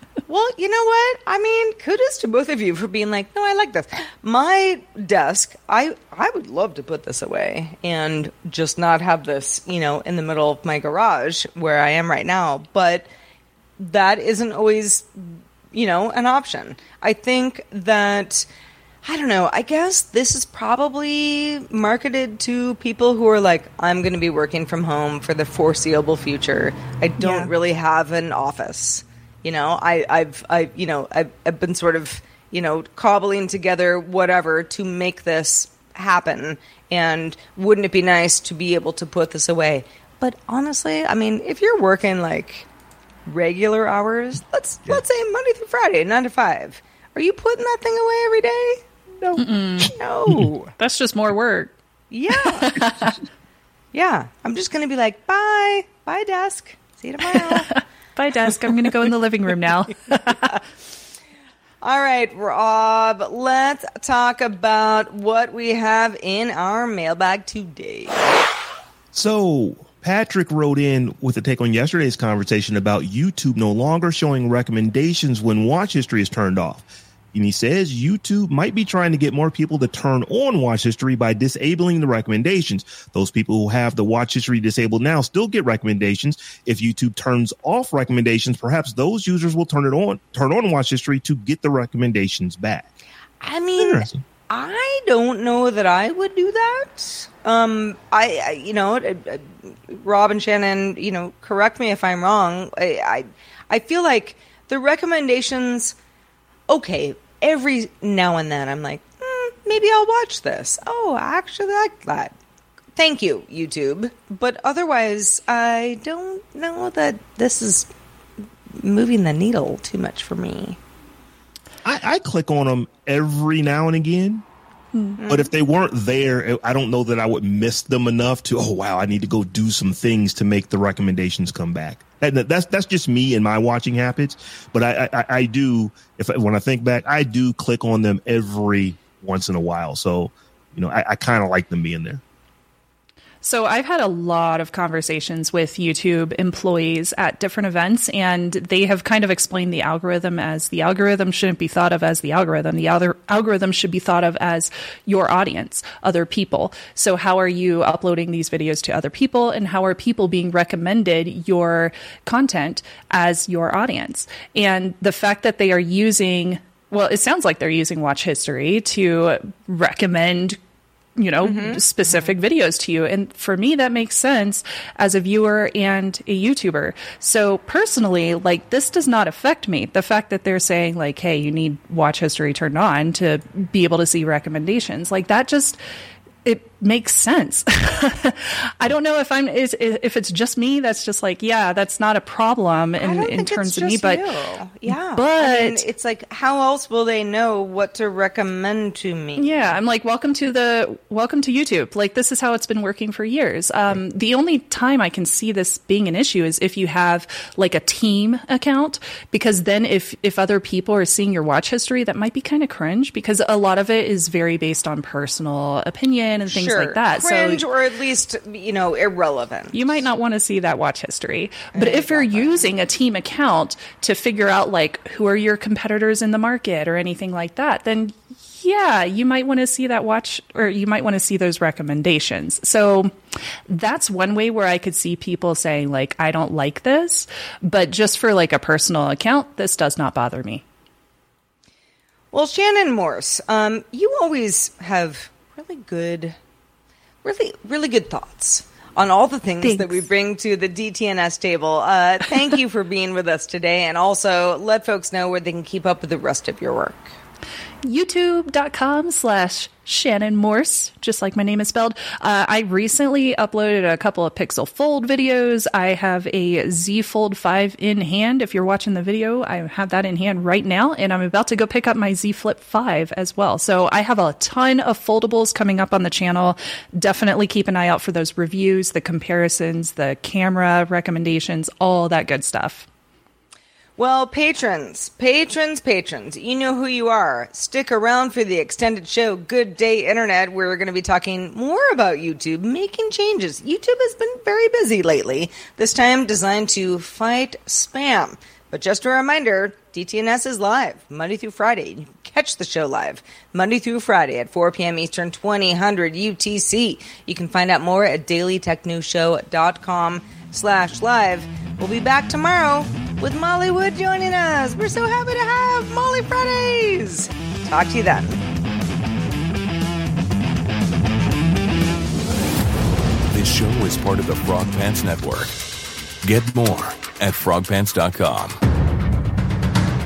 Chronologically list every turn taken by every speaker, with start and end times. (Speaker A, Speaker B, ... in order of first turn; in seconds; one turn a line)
Speaker A: 0.3-13.1
Speaker A: 13.8-15.2
Speaker A: 15.7-18.5
Speaker A: 19.0-42.7
Speaker B: 27.2-27.5
Speaker A: 43.3-50.6
Speaker B: 49.4-51.7
Speaker A: 52.1-52.8
Speaker B: 52.4-53.1
Speaker A: 53.9-57.8
Speaker B: 57.3-60.5
Speaker A: 60.3-60.5
Speaker A: 61.8-68.2
Speaker C: 69.1-92.9
Speaker A: 93.4-106.0
Speaker C: 93.8-94.2
Speaker A: 106.7-112.3
Speaker A: 113.0-117.9
Speaker A: 118.8-120.8
Speaker C: 121.8-124.4
Speaker B: 124.9-125.2
Speaker A: 125.2-125.5
Speaker C: 125.3-142.2
Speaker B: 143.4-170.6
Speaker B: 171.2-185.8
Speaker A: 171.4-172.3
Speaker B: 186.4-194.2
Speaker A: 193.0-199.8
Speaker B: 194.9-195.8
Speaker B: 199.4-217.6
Speaker A: 216.5-219.7
Speaker B: 219.7-233.1
Speaker A: 221.7-222.7
Speaker B: 233.7-240.6
Speaker A: 242.3-246.4
Speaker A: 247.2-257.1
Speaker B: 249.6-250.1
Speaker B: 257.8-282.9
Speaker A: 284.0-318.4
Speaker D: 323.3-325.6
Speaker D: 326.2-328.6